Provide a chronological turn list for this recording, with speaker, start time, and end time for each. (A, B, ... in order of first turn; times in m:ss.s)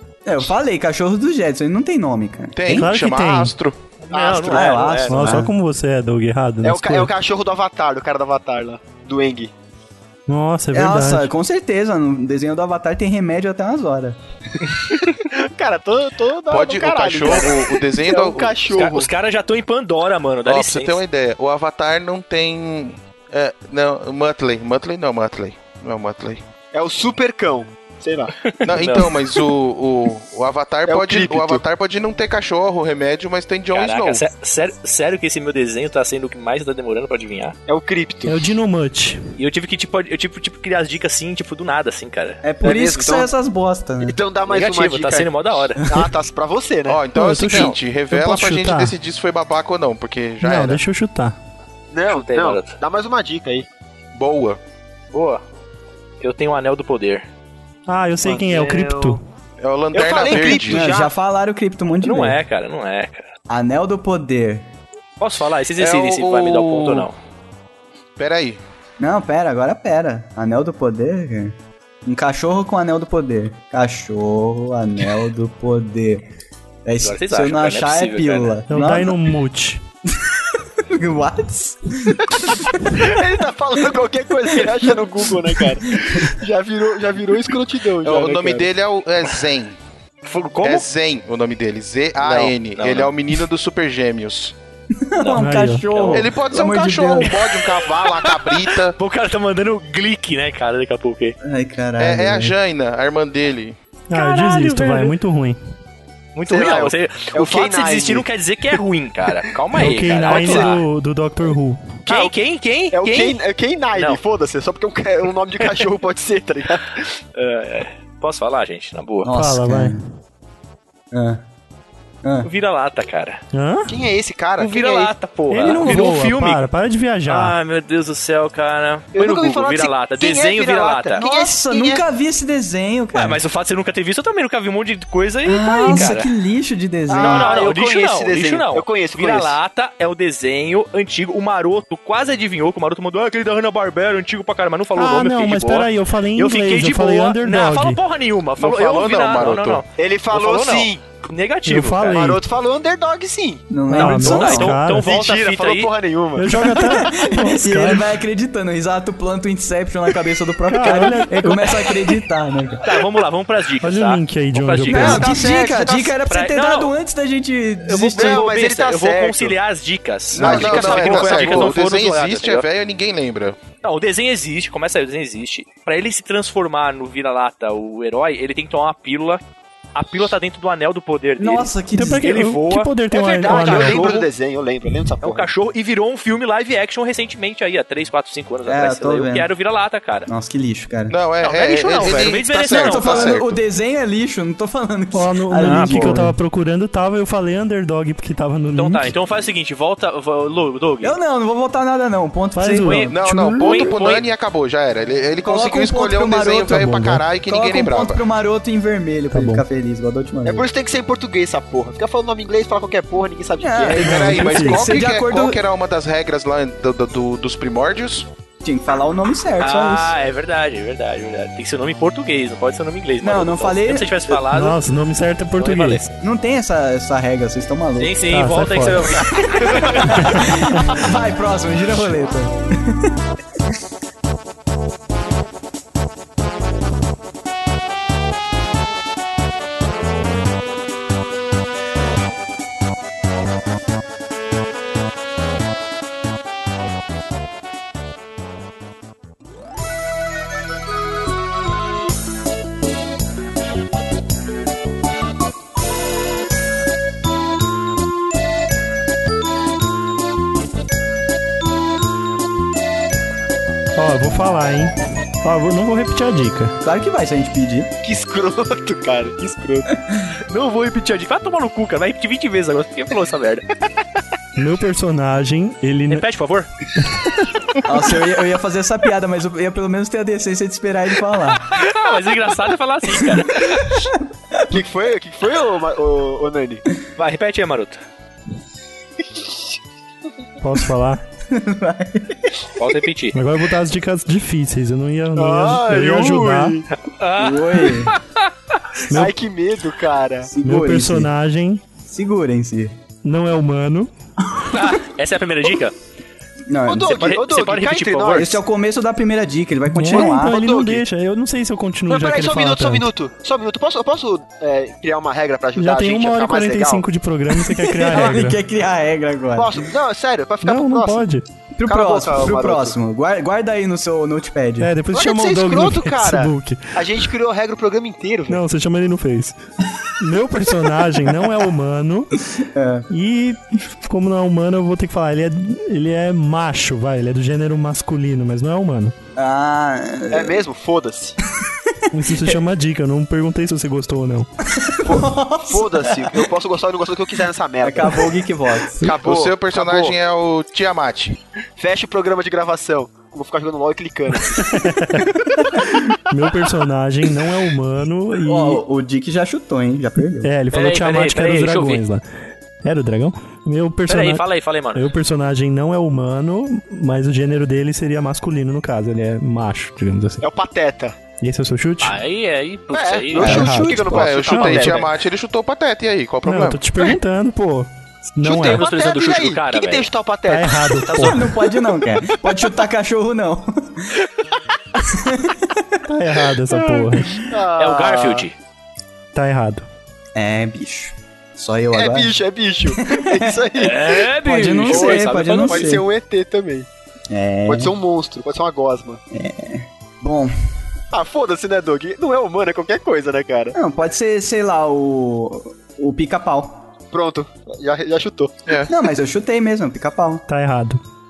0:00.2-0:02.9 A
0:02.6-0:03.8 B
0:02.8-0:03.5 C
0:04.0-0:05.4 D
0:04.1-0:05.1 E
0:04.5-0:05.5 A
0:05.1-0:07.1 C
0:06.6-0:09.5 E
0:10.3-0:11.3 C
0:10.7-0:14.2 A
0:14.9-0:19.1 E
0:16.5-0:18.6 B
0:18.7-0:21.0 D
0:20.4-0:26.4 B
0:26.7-0:28.3 E
0:28.4-0:29.5 D
0:28.6-0:34.2 B
0:30.9-0:31.6 E
0:33.7-0:37.6 D
0:37.7-0:38.5 E
0:38.3-0:39.2 C
0:39.4-0:42.4 D
0:42.4-0:44.2 A
0:42.6-0:43.3 E
0:44.0-0:47.1 E
0:44.5-0:46.0 D
0:46.9-0:50.8 B
0:47.1-0:48.9 C
0:50.4-0:51.4 C
0:51.9-0:53.7 E
0:52.1-0:52.8 D
0:54.2-0:54.6 B
0:55.1-0:55.4 D
0:56.2-0:57.3 D
0:57.9-0:59.2 C
0:58.2-0:59.1 E
0:59.6-1:00.9 B
0:59.9-1:01.1 E
1:00.6-1:02.4 A
1:02.0-1:03.3 D
1:03.5-1:04.6 A
1:05.2-1:07.2 D
1:05.8-1:07.1 B
1:08.2-1:08.6 B
1:09.0-1:11.6 A
1:12.1-1:16.2 A
1:16.9-1:19.2 A
1:17.0-1:18.6 D
1:18.7-1:19.8 C
1:20.2-1:23.0 A
1:22.9-1:28.7 E
1:28.0-1:29.8 B
1:30.2-1:30.9 D
1:30.6-1:34.5 B
1:32.2-1:33.2 D
1:35.0-1:37.3 A
1:35.2-1:36.3 D
1:35.4-1:35.9 C
1:36.1-1:39.0 B
1:37.2-1:41.4 D
1:41.4-1:42.5 A
1:42.0-1:43.8 B
1:44.1-1:45.6 C
1:44.1-1:45.2 D
1:46.4-1:50.8 D
1:46.5-1:48.3 E
1:49.7-1:52.0 C
1:50.2-1:50.8 E
1:52.1-1:53.4 D
1:52.9-1:57.1 E
1:54.0-1:54.2 D
1:55.6-1:55.9 D
1:57.4-1:59.4 D
1:59.2-2:00.0 A
1:59.3-2:00.0 C
2:01.1-2:01.4 A
2:02.2-2:02.5 A
2:02.4-2:03.4 D
2:03.5-2:04.0 C
2:03.9-2:05.1 E
2:04.6-2:06.6 D
2:05.5-2:07.6 C
2:05.7-2:06.0 E
2:07.3-2:11.2 D
2:09.2-2:12.0 E
2:11.2-2:13.4 A
2:13.1-2:16.3 D
2:15.4-2:17.5 A
2:17.1-2:19.6 E
2:17.1-2:32.3 D
2:25.0-2:28.0 C
2:28.6-2:29.8 B
2:30.0-2:31.0 E
2:31.7-2:32.4 C
2:32.1-2:33.7 E
2:33.7-2:34.8 A
2:33.9-2:35.1 C
2:33.9-2:35.9 D
2:35.0-2:36.7 E
2:36.4-2:38.2 C
2:36.5-2:42.8 A
2:40.7-2:42.2 C
2:42.8-2:45.3 D
2:43.8-2:45.3 C
2:44.9-2:48.5 A
2:44.9-2:46.2 E
2:46.2-2:46.9 D
2:47.9-2:52.7 D
2:48.1-2:49.6 E
2:50.3-2:53.6 B
2:50.4-2:51.8 E
2:53.8-2:59.4 D
3:00.0-3:04.3 D
3:01.4-3:02.4 A
3:02.0-3:04.2 C
3:03.1-3:05.5 E
3:05.2-3:10.3 D
3:08.7-3:09.5 A
3:10.3-3:11.2 A
3:11.1-3:13.6 B
3:11.4-3:13.4 D
3:12.7-3:16.4 A
3:15.1-3:19.1 C
3:15.6-3:16.1 D
3:18.8-3:21.2 D
3:21.0-3:23.1 A
3:22.6-3:23.9 C
3:22.8-3:24.3 D
3:23.1-3:28.2 B
3:25.4-3:30.7 A
3:26.8-3:27.2 C
3:29.3-3:29.6 C
3:30.4-3:34.4 E
3:33.6-3:35.6 A
3:34.0-3:38.3 B
3:34.0-3:34.8 C
3:38.6-3:40.1 A
3:39.6-3:44.8 D
3:43.2-3:44.4 A
3:44.5-3:46.1 C
3:45.6-3:46.1 D
3:46.2-3:48.1 A
3:48.0-3:50.5 D
3:48.3-3:49.2 C
3:49.9-3:53.1 A
3:50.1-3:51.0 C
4:24.0-4:26.8 C
4:26.8-4:27.9 A
4:28.0-4:29.9 E
4:30.5-4:33.7 D
4:34.6-4:36.2 C
4:36.1-4:36.7 D
4:37.1-4:37.4 C
4:37.8-4:41.8 A
4:41.6-4:44.0 D
4:44.7-4:46.8 E
4:47.2-4:48.0 D
4:50.6-4:51.2 C
4:51.5-4:52.5 A
4:52.8-4:53.4 D
4:53.3-4:56.8 C
4:55.4-4:56.9 E
4:57.1-4:58.5 D
4:57.4-4:58.2 A
4:59.1-5:00.5 E
5:00.5-5:01.3 A
5:00.6-5:01.8 C
5:02.1-5:02.9 A
5:03.2-5:04.1 C
5:04.7-5:06.0 D
5:06.7-5:07.2 A
5:06.9-5:08.6 E
5:07.1-5:08.6 D
5:08.4-5:10.6 A
5:09.9-5:13.1 C
5:10.1-5:11.0 E
5:12.1-5:17.1 E
5:15.8-5:18.6 C
5:17.6-5:19.8 A
5:19.6-5:21.3 E
5:20.6-5:21.5 C
5:21.7-5:24.9 A
5:21.8-5:23.0 E
5:24.8-5:27.0 C
5:25.1-5:28.6 E
5:28.5-5:29.6 C
5:30.2-5:32.4 C
5:32.7-5:33.1 A
5:33.1-5:39.2 C
5:39.4-5:40.6 A
5:40.3-5:41.4 E
5:41.9-5:42.6 A
5:42.1-5:44.5 C
5:44.7-5:46.4 A
5:45.0-5:48.4 E
5:47.8-5:49.1 A
5:49.0-5:50.2 E
5:49.0-5:51.4 B
5:51.8-5:54.7 E
5:54.5-5:55.4 C
5:56.3-5:58.8 C
5:58.4-6:00.5 A
6:00.4-6:02.2 C
6:00.7-6:02.0 D
6:02.8-6:04.4 C
6:04.1-6:05.1 D
6:05.0-6:10.4 C
6:10.4-6:11.2 E
6:11.4-6:12.2 C
6:12.0-6:13.7 D
6:12.9-6:15.1 E
6:13.4-6:14.1 A
6:13.4-6:15.0 C
6:14.0-6:16.8 B
6:16.5-6:18.8 C
6:18.4-6:21.4 E
6:18.5-6:20.1 D
6:20.5-6:21.6 C
6:21.1-6:24.2 A
6:25.0-6:26.1 A
6:26.1-6:27.4 C
6:27.4-6:28.5 E
6:27.8-6:28.5 D
6:29.3-6:29.8 C
6:30.4-6:33.7 A
6:31.9-6:34.3 E
6:33.8-6:36.0 D
6:34.4-6:36.0 A
6:34.9-6:36.9 E
6:37.3-6:37.9 A
6:37.7-6:39.2 E
6:39.3-6:40.5 A
6:41.1-6:43.8 E
6:43.7-6:46.8 A
6:47.1-6:48.6 E
6:48.9-6:50.5 A
6:50.5-6:51.0 C